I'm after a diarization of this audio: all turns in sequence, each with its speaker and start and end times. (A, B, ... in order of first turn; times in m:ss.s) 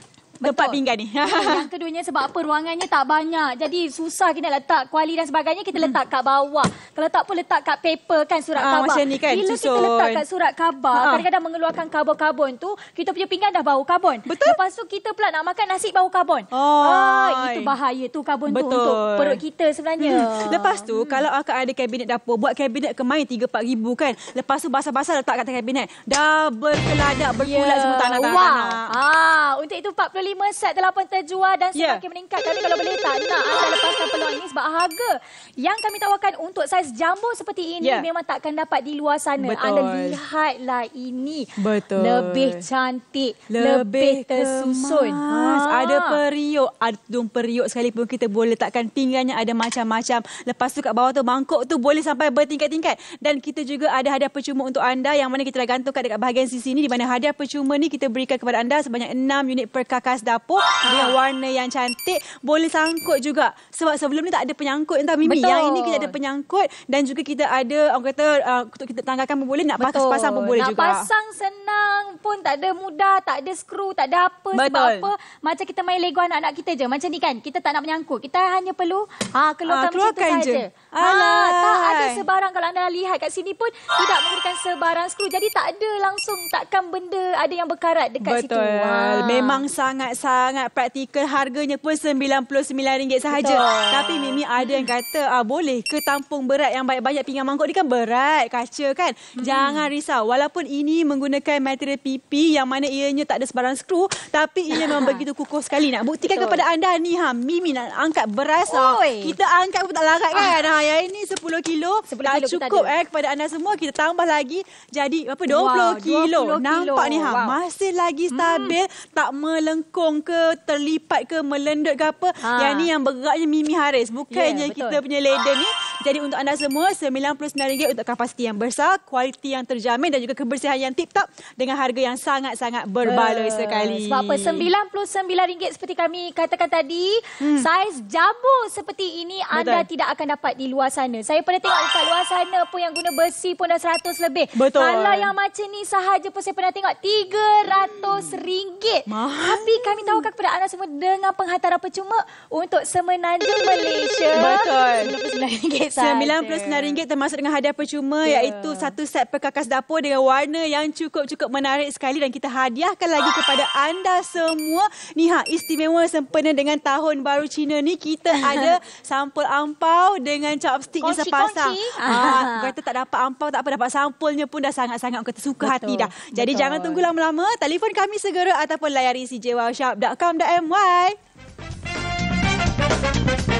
0:00.4-0:21.2 A
0:00.4-0:01.7 B
0:08.6-0:10.2 B
0:10.9-0:11.2 B
0:14.2-0:14.6 B
0:16.5-0:17.7 B
0:18.5-0:19.4 B
0:20.0-0:28.9 B
0:27.4-0:46.2 A
0:31.7-0:32.0 B
0:37.8-0:38.1 B
0:39.4-0:40.2 B
0:41.6-0:42.6 B
0:43.5-1:11.1 B
1:00.8-1:01.2 A
1:05.2-1:06.1 A
1:09.8-1:29.6 A
1:14.5-1:15.1 B
1:19.7-1:22.2 B
1:28.2-2:14.7 B
1:33.3-1:34.8 A
1:39.4-1:39.9 A
1:44.7-1:45.2 A
1:46.2-1:46.6 A
1:48.7-1:49.4 A
1:52.1-1:52.9 A
1:55.4-1:57.6 A
1:58.3-1:58.8 A
2:02.4-2:02.9 A
2:04.3-2:05.0 A
2:13.0-2:37.0 A
2:17.4-2:17.7 B
2:19.5-2:19.9 B
2:24.6-2:25.3 B
2:29.1-2:30.3 B
2:34.3-2:35.1 B
2:36.0-3:01.2 B
2:38.2-2:38.9 A
2:48.3-2:48.7 A
2:51.0-2:52.7 A
2:55.6-2:57.0 A